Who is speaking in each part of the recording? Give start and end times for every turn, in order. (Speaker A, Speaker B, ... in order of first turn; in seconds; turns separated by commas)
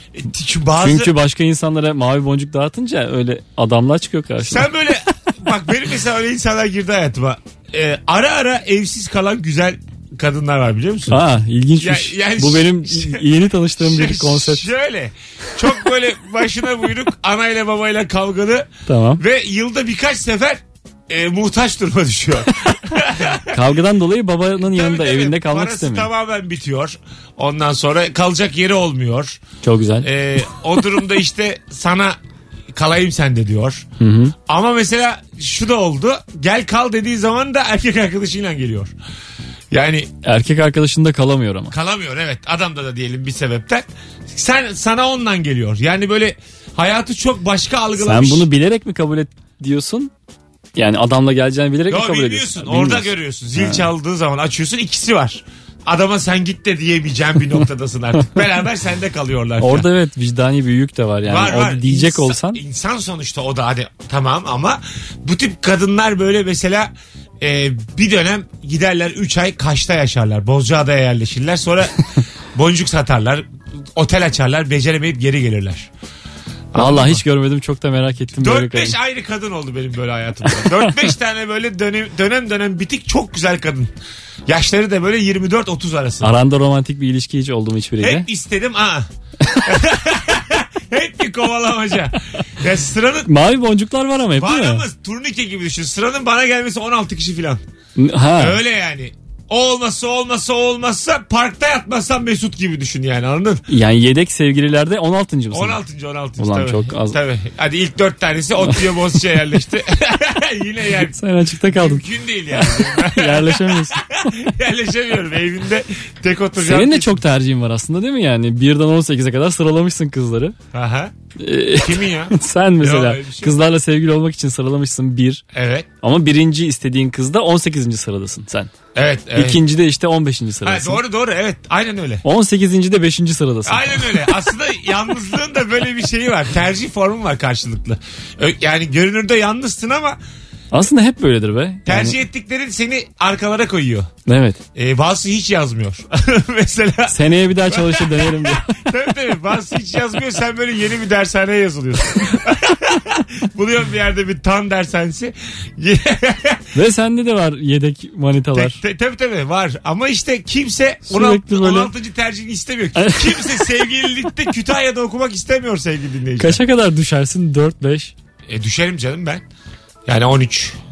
Speaker A: 0.2-1.1, Speaker B: 0.8-4.7, Speaker A: 4.5-11.2, Speaker B: 11.1-14.7, Speaker A: 11.8-13.2, Speaker A: 13.8-18.7, Speaker B: 18.9-19.2, Speaker A: 19.2-23.5, Speaker B: 23.5-26.1, Speaker A: 24.6-29.4, Speaker B: 29.6-30.1, Speaker A: 30.0-32.2, Speaker A: 32.7-33.9, Speaker B: 34.0-34.3, Speaker A: 34.5-38.9, Speaker A: 39.7-40.1, Speaker B: 40.2-41.7, Speaker A: 41.7-48.5, Speaker B: 48.0-50.1, Speaker B: 50.8-53.9, Speaker A: 51.9-59.9, Speaker B: 59.6-62.6, Speaker A: 61.3-66.9, Speaker A: 67.4-73.5, Speaker A: 74.0-75.9, Speaker A: 76.7-77.2, Speaker B: 76.8-79.0, Speaker A: 78.4-83.9, Speaker B: 80.6-80.9, Speaker A: 84.5-86.3, Speaker B: 86.2-88.2, Speaker A: 88.0-89.1, Speaker A: 89.7-93.3, Speaker B: 93.3-94.8, Speaker A: 94.4-97.6, Speaker B: 98.0-98.6, Speaker A: 98.4-103.6, Speaker B: 103.7-105.8, Speaker A: 105.5-111.2, Speaker B: 106.4-107.2, Speaker B: 111.1-114.0, Speaker A: 111.7-117.2, Speaker B: 116.6-120.6, Speaker A: 120.7-121.1, Speaker B: 121.4-125.4, Speaker A: 121.8-123.5, Speaker A: 125.5-125.9, Speaker B: 126.0-128.7, Speaker A: 128.9-129.6, Speaker B: 129.4-131.0, Speaker A: 130.6-132.2, Speaker B: 132.2-134.3, Speaker A: 133.7-140.2, Speaker B: 140.7-142.2, Speaker A: 141.9-144.1, Speaker B: 144.3-144.6, Speaker A: 144.8-147.2, Speaker B: 147.1-148.8, Speaker A: 147.7-156.6, Speaker B: 156.7-158.8, Speaker A: 158.6-166.6, Speaker B: 161.1-161.9, Speaker B: 163.0-163.7, Speaker B: 166.4-168.1, Speaker A: 168.5-169.4, Speaker A: 170.1-170.8